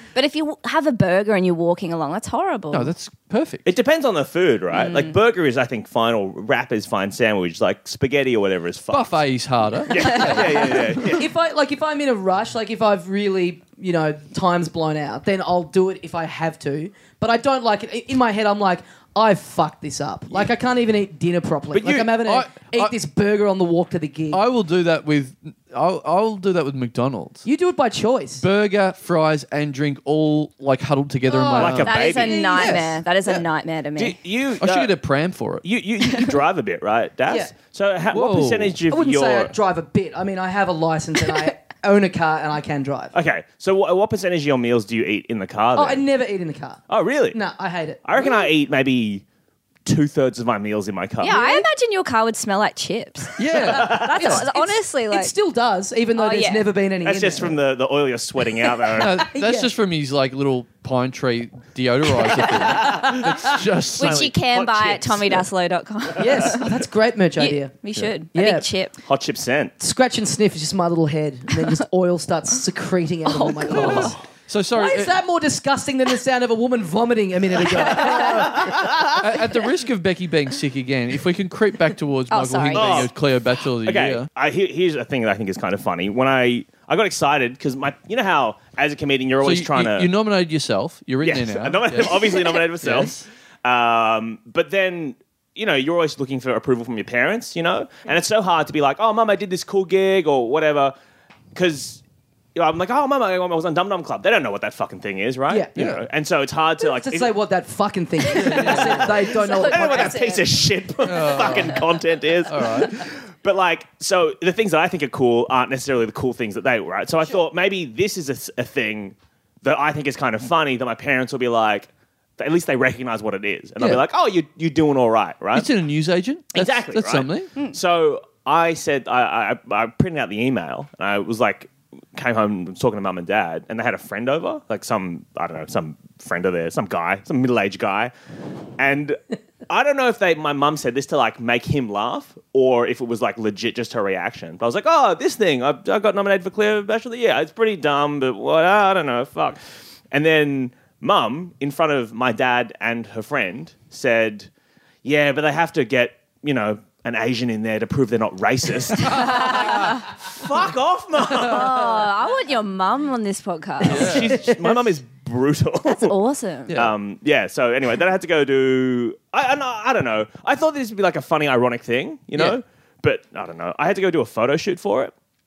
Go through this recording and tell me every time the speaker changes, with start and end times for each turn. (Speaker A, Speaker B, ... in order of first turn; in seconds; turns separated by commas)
Speaker A: 0.1-2.9, Speaker B: 2.7-3.6, Speaker C: 3.6-9.2, Speaker A: 4.7-5.2, Speaker B: 8.9-11.1, Speaker C: 9.8-11.3, Speaker A: 10.0-10.8, Speaker D: 10.5-24.4, Speaker C: 21.7-22.0, Speaker B: 21.8-22.9, Speaker B: 24.3-27.4, Speaker D: 27.4-28.4, Speaker B: 28.4-33.0, Speaker D: 31.3-32.8, Speaker C: 31.5-32.5, Speaker A: 31.8-34.2, Speaker C: 34.0-34.9, Speaker B: 34.6-35.6, Speaker C: 35.6-39.5, Speaker A: 36.0-36.4, Speaker B: 38.1-38.8, Speaker D: 38.9-43.1, Speaker C: 43.1-46.0, Speaker D: 45.7-46.8, Speaker C: 46.9-47.4, Speaker D: 47.3-48.5, Speaker C: 48.0-49.2, Speaker C: 49.9-51.4, Speaker A: 51.2-55.3, Speaker D: 51.2-51.7, Speaker B: 53.4-54.4, Speaker C: 53.6-54.3, Speaker D: 53.7-57.5, Speaker A: 56.1-56.7, Speaker C: 57.0-59.2, Speaker B: 58.9-64.3, Speaker D: 59.3-59.7, Speaker C: 62.4-65.5, Speaker D: 62.8-63.5, Speaker A: 64.0-66.8, Speaker C: 66.2-66.5, Speaker D: 66.2-67.7, Speaker A: 67.4-68.9, Speaker D: 68.3-68.7, Speaker C: 69.0-69.7, Speaker D: 69.8-74.1, Speaker A: 73.3-74.1, Speaker B: 73.7-75.2, Speaker D: 74.7-78.9, Speaker A: 77.8-78.5, Speaker C: 78.0-79.3, Speaker B: 78.4-84.3, Speaker A: 82.3-83.1, Speaker C: 82.7-83.1, Speaker C: 83.8-90.1, Speaker B: 89.4-93.2, Speaker C: 91.2-100.9, Speaker C: 101.5-102.0, Speaker C: 102.5-107.3, Speaker B: 105.8-106.0, Speaker D: 106.8-110.2, Speaker A: 108.3-110.6, Speaker B: 108.3-109.0, Speaker C: 108.6-125.7, Speaker B: 111.0-111.8, Speaker B: 112.5-113.0, Speaker B: 123.8-124.0, Speaker B: 125.5-127.5, Speaker C: 126.5-138.1, Speaker C: 138.8-149.6, Speaker C: 150.1-154.5, Speaker C: 155.0-162.0, Speaker A: 159.1-160.1, Speaker A: 161.3-164.4, Speaker C: 163.8-166.1, Speaker B: 163.8-164.3, Speaker A: 165.9-166.7, Speaker B: 166.7-166.9, Speaker C: 166.7-175.1